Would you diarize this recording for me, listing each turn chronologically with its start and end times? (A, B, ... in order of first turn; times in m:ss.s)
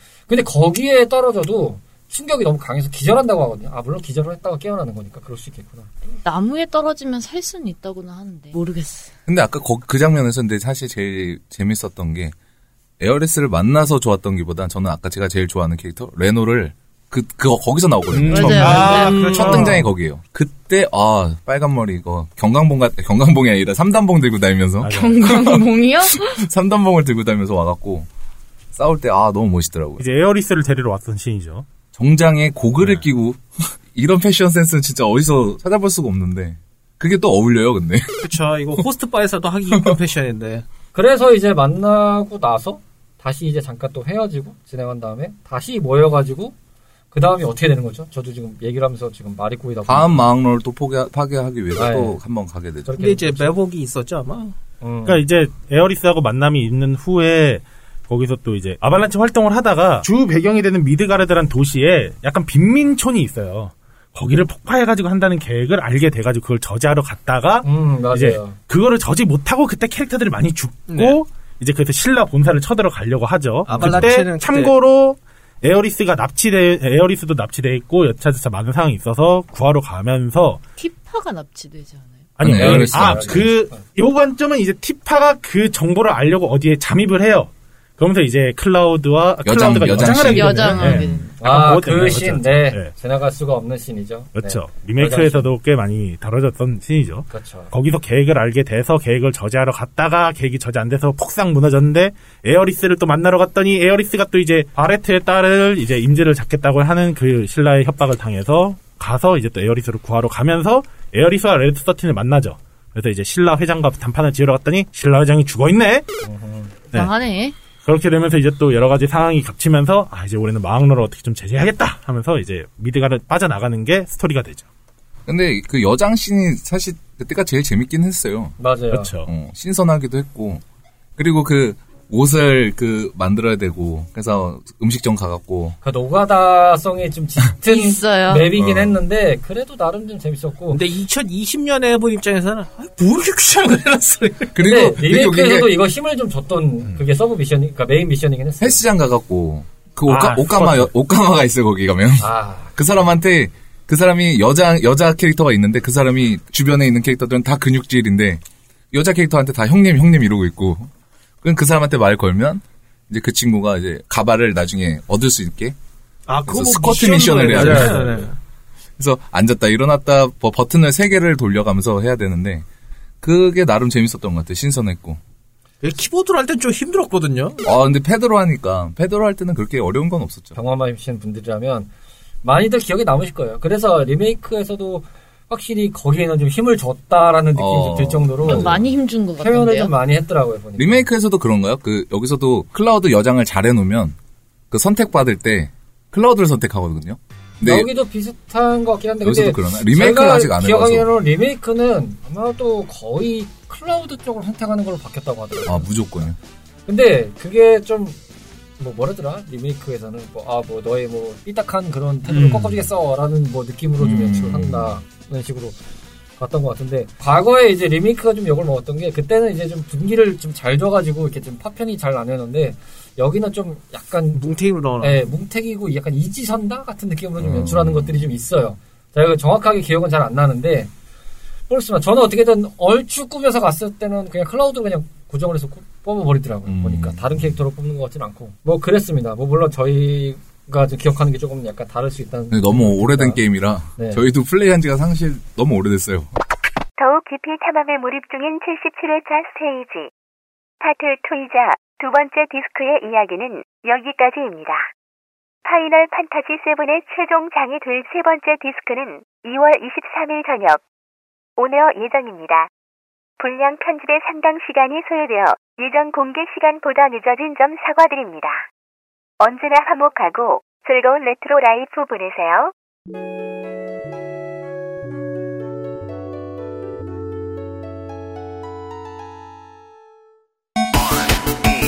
0:00.3-0:05.9 A
0:06.1-0:09.1 B
0:09.3-0:12.3 C
0:13.0-0:28.1 C
0:18.1-0:19.7 D
0:18.2-0:19.6 B
0:18.5-0:19.8 E
0:24.8-0:25.4 D
0:24.8-0:26.5 B
0:28.7-0:30.0 C
0:30.0-0:31.6 D
0:31.9-0:38.3 C
0:32.8-0:33.0 D
0:38.2-0:40.6 E
0:40.9-0:46.5 A
0:47.1-0:50.2 A
0:49.9-0:53.0 C
0:51.8-0:52.2 A
0:52.8-0:53.5 A
0:53.0-0:54.6 E
0:54.8-0:55.2 A
0:55.0-1:20.6 D
1:07.6-1:08.6 A
1:10.9-1:11.2 E
1:13.7-1:14.7 E
1:13.7-1:14.1 C
1:20.8-1:22.4 B
1:22.4-1:32.9 D
1:22.4-1:23.5 C
1:22.5-1:23.8 A
1:29.4-1:30.9 C
1:29.9-1:31.3 B
1:31.4-1:35.5 A
1:34.4-1:56.0 D
1:37.3-1:37.7 A
1:56.2-1:56.7 A
1:56.9-1:57.6 B
1:57.8-2:04.6 D
2:05.2-2:08.6 C
2:08.6-2:09.1 A
2:08.9-2:09.3 D
2:09.2-2:10.6 C
2:11.2-2:15.8 C
2:15.8-2:20.8 A
2:17.7-2:18.5 B
2:18.6-2:19.0 C
2:20.7-2:24.6 E
2:24.5-2:25.7 C
2:24.6-2:28.8 A
2:28.6-2:38.4 C
2:30.0-2:30.9 D
2:32.2-2:32.8 A
2:38.9-2:40.9 C
2:41.4-2:45.8 C
2:46.3-2:48.3 E
2:46.5-2:48.2 C
2:47.6-2:47.9 D
2:49.0-2:52.6 C
2:53.2-2:55.2 C
2:55.8-2:57.6 E
2:57.6-3:00.5 C
3:00.5-3:01.9 A
3:02.4-3:08.8 A
3:07.5-3:08.9 C
3:08.4-3:09.9 B
3:09.4-3:11.1 A
3:10.8-3:14.1 C
3:14.7-3:17.9 C
3:17.6-3:25.9 A
3:19.2-3:21.1 C
3:25.6-3:26.4 C
3:26.8-3:28.2 A
3:28.8-3:35.8 A
3:32.3-3:32.9 D
3:34.0-3:35.0 C
3:36.4-3:44.4 A
3:44.3-3:45.2 E
3:45.0-3:50.9 A
3:47.4-3:48.2 C
3:51.7-4:03.4 A
3:56.6-3:57.2 C
4:02.5-4:06.3 C
4:04.0-4:04.2 A
4:07.0-4:10.1 F
4:10.8-4:14.9 F
4:15.6-4:20.8 F
4:21.6-4:22.7 F
4:23.4-4:28.6 F
4:29.4-4:32.7 F